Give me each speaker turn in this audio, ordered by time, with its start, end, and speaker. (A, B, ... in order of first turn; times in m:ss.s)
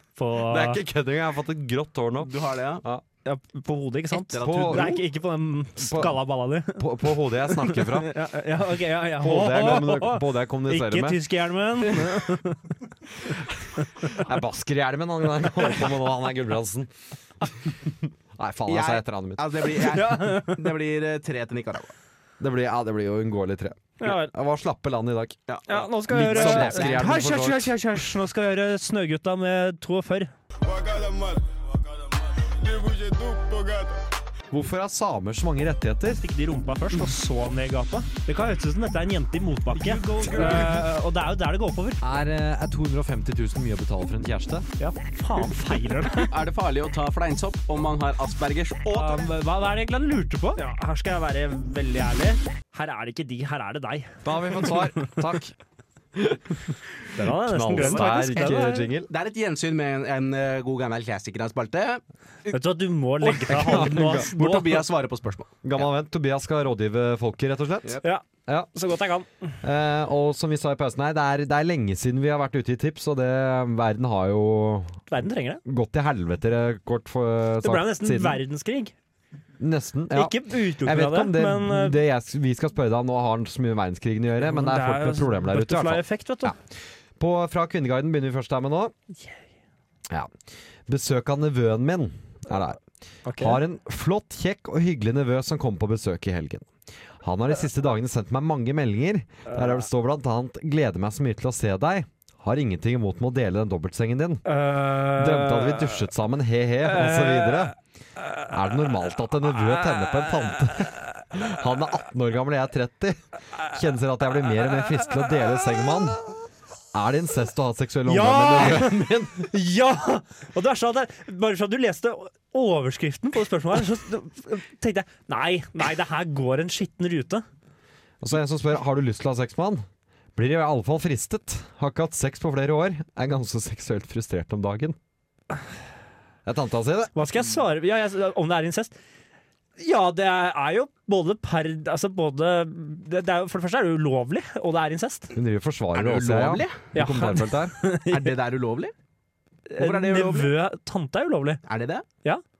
0:00.2-0:00.8 A
0:00.4-0:03.0 B
0:02.2-0:02.8 C
0:03.2-0:12.8 A
0:04.1-0:05.0 C
0:04.4-0:05.0 B
0:05.8-0:08.2 B
0:09.2-0:11.2 B
0:14.1-0:16.9 B
0:17.8-0:19.6 B
0:18.7-0:21.9 C
0:19.8-0:20.6 A
0:22.4-0:25.4 B
0:24.0-0:24.3 A
0:25.5-0:27.2 C
0:25.7-0:30.3 A
0:26.0-0:27.7 B
0:34.5-0:36.2 B
0:36.2-0:42.0 A
0:40.0-0:40.8 B
0:42.0-0:44.7 B
0:44.8-0:46.3 A
0:46.2-0:49.2 C
0:48.8-0:55.1 A
0:54.2-0:55.5 B
0:56.1-0:59.1 B
0:57.1-0:58.9 A
0:57.7-1:02.5 C
1:02.5-1:04.3 A
1:03.2-1:05.9 C
1:03.4-1:04.8 B
1:05.6-1:08.7 B
1:08.0-1:09.3 A
1:09.6-1:15.0 B
1:15.1-1:15.6 A
1:15.6-1:18.4 B
1:17.6-1:18.9 A
1:19.6-1:26.6 B
1:20.1-1:22.0 A
1:24.4-1:26.5 A
1:27.2-1:28.9 B
1:30.9-1:32.8 B
1:33.2-1:33.6 A
1:33.4-1:36.7 B
1:37.2-1:44.4 B
1:39.5-1:39.8 A
1:44.4-1:46.1 A
1:45.0-1:47.7 B
1:46.8-1:47.7 A
1:48.5-1:56.2 B
1:49.7-1:50.6 A
1:56.9-1:59.5 B
1:58.0-2:07.4 A
2:08.2-2:15.0 B
2:16.4-2:17.1 B
2:17.1-2:18.9 A
2:19.8-2:25.3 A
2:25.3-2:27.7 B
2:25.9-2:26.8 C
2:26.9-2:28.3 A
2:28.1-2:28.9 C
2:29.7-2:31.6 A
2:29.8-2:30.5 C
2:31.6-2:32.0 C